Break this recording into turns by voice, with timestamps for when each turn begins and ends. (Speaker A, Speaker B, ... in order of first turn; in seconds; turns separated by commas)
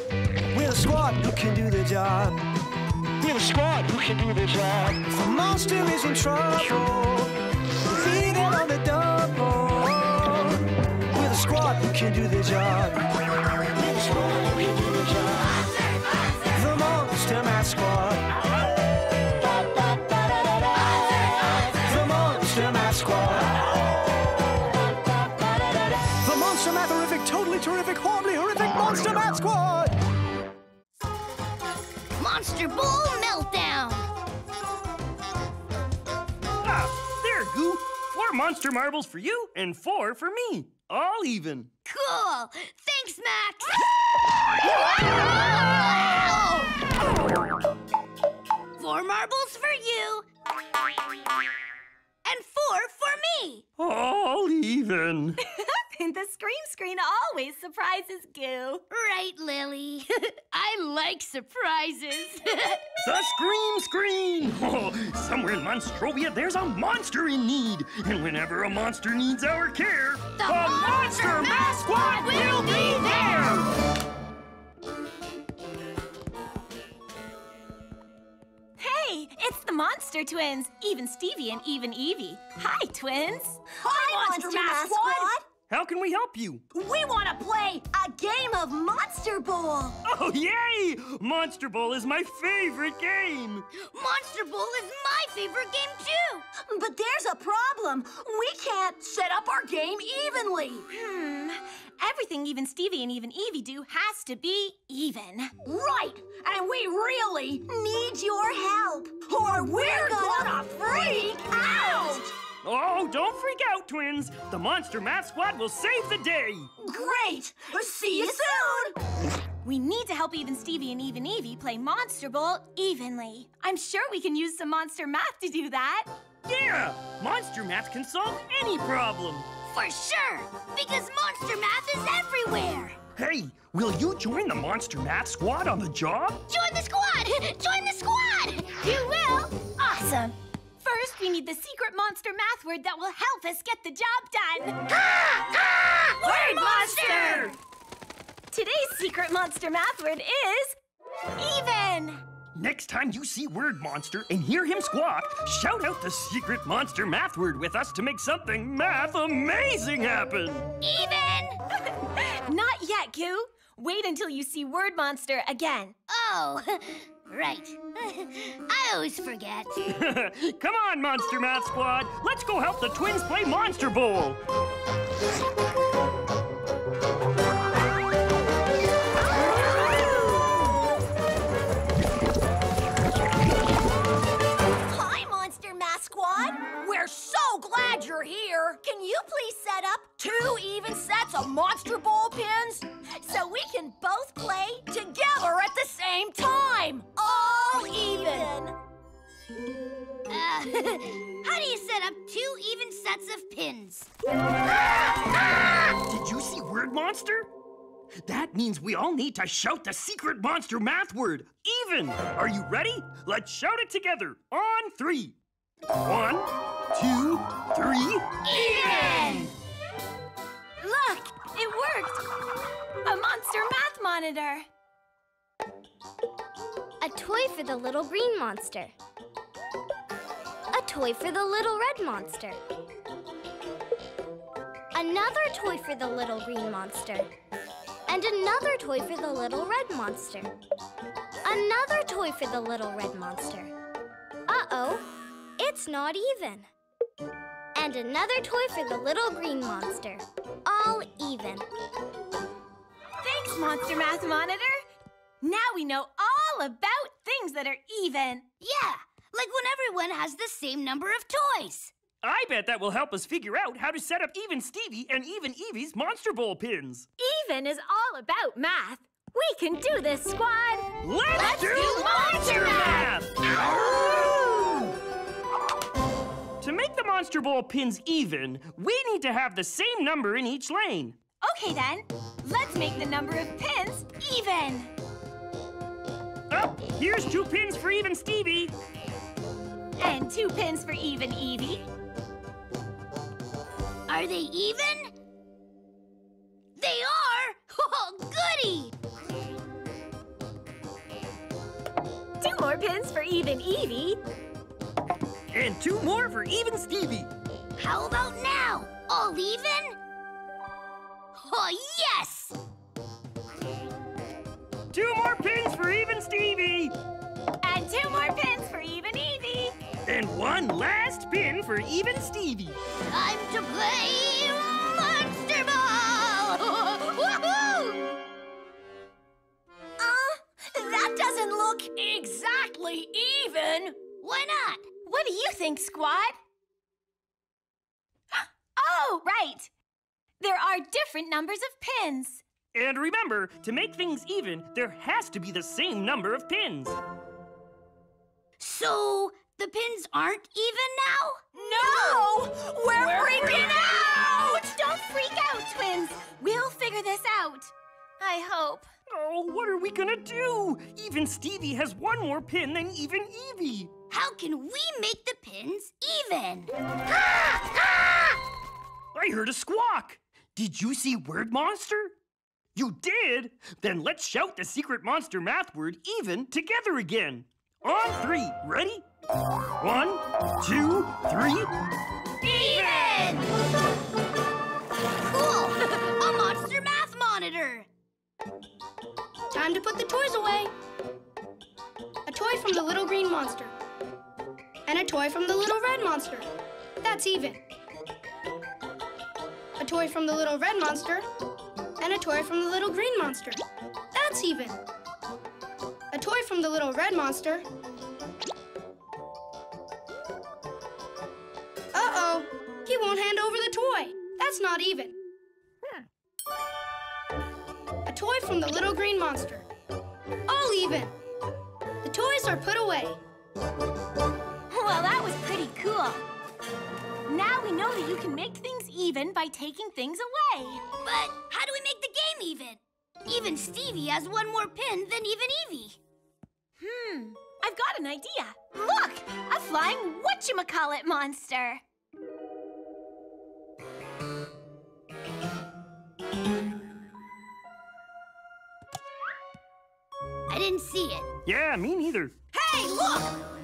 Speaker A: 0.5-2.4, Speaker A: 3.2-7.3, Speaker A: 7.9-13.0, Speaker A: 13.8-15.5, Speaker A: 16.5-18.3, Speaker A: 19.7-20.5, Speaker A: 21.7-23.8, Speaker A: 25.6-29.9, Speaker B: 28.9-29.3, Speaker C: 32.2-34.1, Speaker B: 36.6-41.7, Speaker C: 41.9-43.8, Speaker C: 44.6-46.8, Speaker C: 48.8-50.3, Speaker C: 52.2-53.6, Speaker B: 53.8-55.4, Speaker D: 55.5-58.8, Speaker C: 58.9-62.9, Speaker B: 63.0-73.7, Speaker C: 70.4-71.8, Speaker E: 71.7-73.7, Speaker D: 78.8-85.3, Speaker E: 83.8-85.4, Speaker B: 85.7-86.6, Speaker E: 86.7-90.0, Speaker B: 90.0-93.7, Speaker C: 93.8-96.5, Speaker E: 96.5-100.9, Speaker D: 100.9-105.5, Speaker E: 105.6-112.3, Speaker B: 112.6-116.7, Speaker E: 116.8-119.0, Speaker D: 118.2-118.6, Speaker D: 119.6-126.1, Speaker B: 126.5-129.5, Speaker C: 129.7-133.0, Speaker B: 133.2-136.4, Speaker C: 136.5-138.8, Speaker D: 138.8-144.8, Speaker C: 144.9-147.5, Speaker B: 146.5-147.5, Speaker D: 146.6-147.5, Speaker D: 148.5-150.8, Speaker D: 151.4-152.2, Speaker B: 152.6-160.7, Speaker C: 160.8-161.6, Speaker D: 162.1-165.9, Speaker C: 166.1-169.8, Speaker B: 169.9-174.4, Speaker D: 184.9-186.8, Speaker E: 186.7-192.9, Speaker D: 189.0-189.9, Speaker D: 193.2-194.7, Speaker E: 193.4-198.8, Speaker C: 200.3-204.1, Speaker B: 205.8-207.5, Speaker B: 208.2-215.4, Speaker B: 216.0-218.3, Speaker C: 218.4-219.5, Speaker D: 218.8-219.4, Speaker D: 220.8-222.2, Speaker D: 223.0-224.7, Speaker F: 227.0-228.9, Speaker F: 230.7-232.6, Speaker F: 234.9-237.3, Speaker F: 238.1-240.5, Speaker F: 241.4-243.7, Speaker F: 244.5-246.7, Speaker F: 247.8-251.7, Speaker D: 253.2-254.8, Speaker D: 255.4-258.4, Speaker C: 258.6-261.9, Speaker B: 262.2-267.1, Speaker D: 267.2-270.9, Speaker B: 271.0-274.9, Speaker C: 271.4-273.0, Speaker D: 271.4-273.0, Speaker C: 273.8-274.3, Speaker B: 276.6-281.2, Speaker D: 281.4-284.9, Speaker B: 286.5-288.7, Speaker D: 290.0-291.9, Speaker C: 294.1-295.1, Speaker C: 296.8-298.9, Speaker D: 302.4-304.2, Speaker B: 305.5-307.3, Speaker C: 307.8-310.0, Speaker C: 311.4-312.6, Speaker B: 314.9-316.9, Speaker D: 317.6-319.7, Speaker B: 320.1-322.8, Speaker C: 323.1-328.1, Speaker E: 330.0-334.0, Speaker C: 334.2-334.9, Speaker D: 335.1-336.4, Speaker D: 338.3-339.7, Speaker D: 340.4-342.4, Speaker B: 342.7-347.0, Speaker C: 348.6-352.2, Speaker D: 351.6-358.9, Speaker E: 353.1-353.6, Speaker B: 353.2-353.6, Speaker C: 353.6-354.2, Speaker B: 359.1-363.9, Speaker C: 364.1-366.7, Speaker C: 367.3-368.4, Speaker B: 369.1-372.1, Speaker B: 372.8-379.0, Speaker B: 379.8-381.7, Speaker C: 382.4-383.5, Speaker C: 385.2-387.9, Speaker G: 389.6-390.7, Speaker G: 392.3-393.8, Speaker G: 394.9-396.5, Speaker G: 397.0-397.6, Speaker G: 399.8-401.3, Speaker G: 402.0-403.6, Speaker G: 404.1-404.8, Speaker G: 406.1-407.6, Speaker G: 411.9-415.2, Speaker G: 418.1-419.6, Speaker G: 420.5-421.1, Speaker G: 422.0-423.2, Speaker D: 424.7-426.2, Speaker D: 427.3-430.8, Speaker C: 431.0-436.0, Speaker D: 436.8-441.8, Speaker C: 450.5-451.3, Speaker B: 451.4-452.3, Speaker E: 452.5-453.4